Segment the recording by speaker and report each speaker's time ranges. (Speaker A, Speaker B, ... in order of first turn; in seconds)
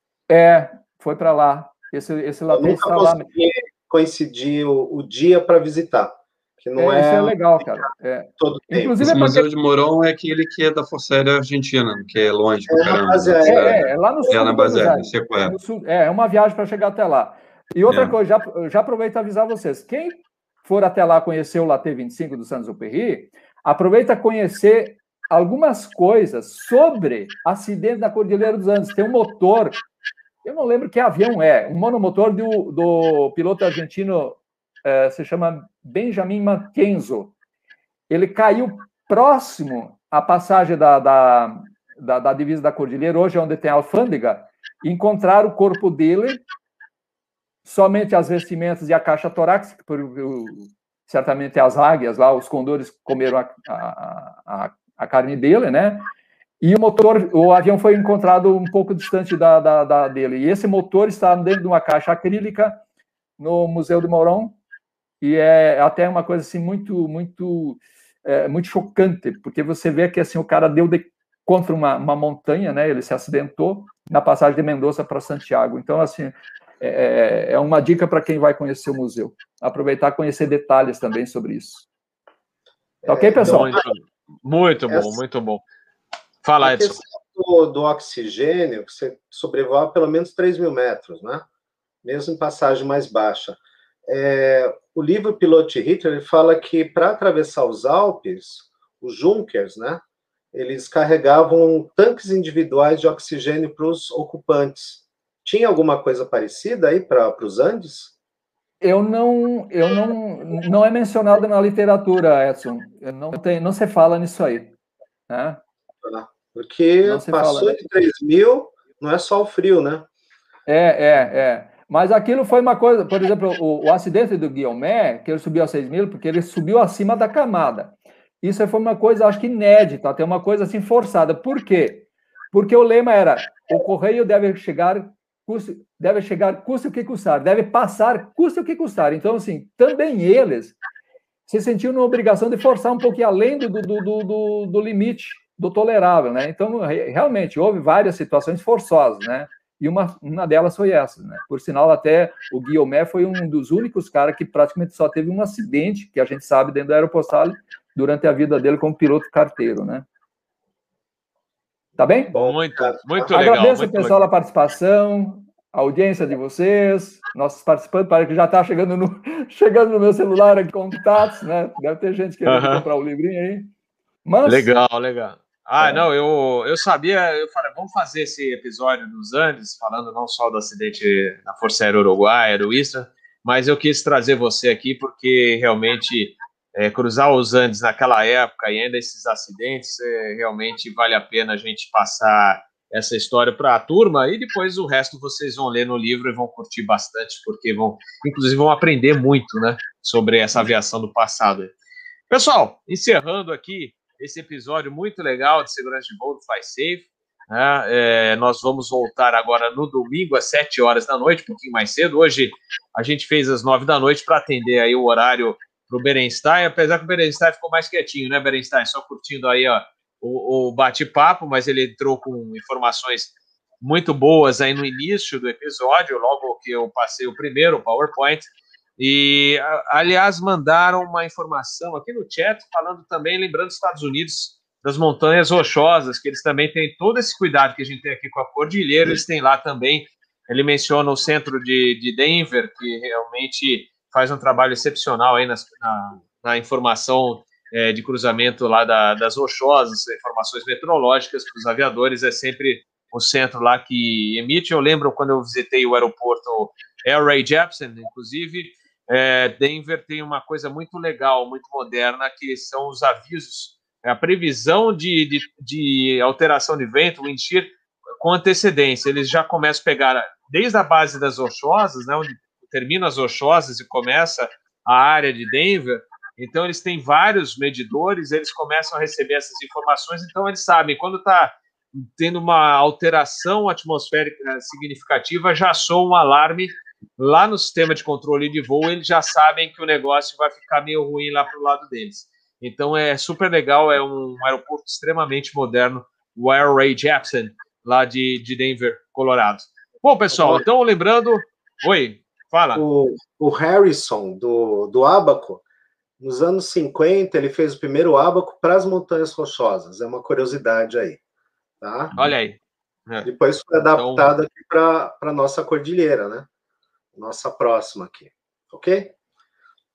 Speaker A: 0.3-3.3, 6.8-9.4, 13.4-29.8, 30.4-37.3, 38.1-46.4, 47.6-56.1, 56.6-62.8, 63.4-64.6, 65.2-81.8, 83.1-83.7, 108.8-114.7, 115.3-115.6, 117.0-117.8, 120.7-140.8, 141.5-160.1, 162.0-162.3, 163.3-173.7, 174.2-174.7
Speaker B: 2.5-7.9, 8.4-8.9, 12.7-13.8, 83.0-83.9, 84.9-85.2, 86.6-91.4, 92.0-108.1, 116.0-120.0, 162.3-163.3, 300.3-300.6, 302.7-305.6, 306.2-311.2, 311.8-312.3, 313.2-316.5, 317.1-319.1
Speaker C: 9.0-15.6, 17.9-18.1
Speaker D: 83.4-85.6, 86.4-87.0, 162.3-164.2, 172.4-172.8, 174.4-201.7, 202.3-302.8, 312.1-313.3, 313.9-314.3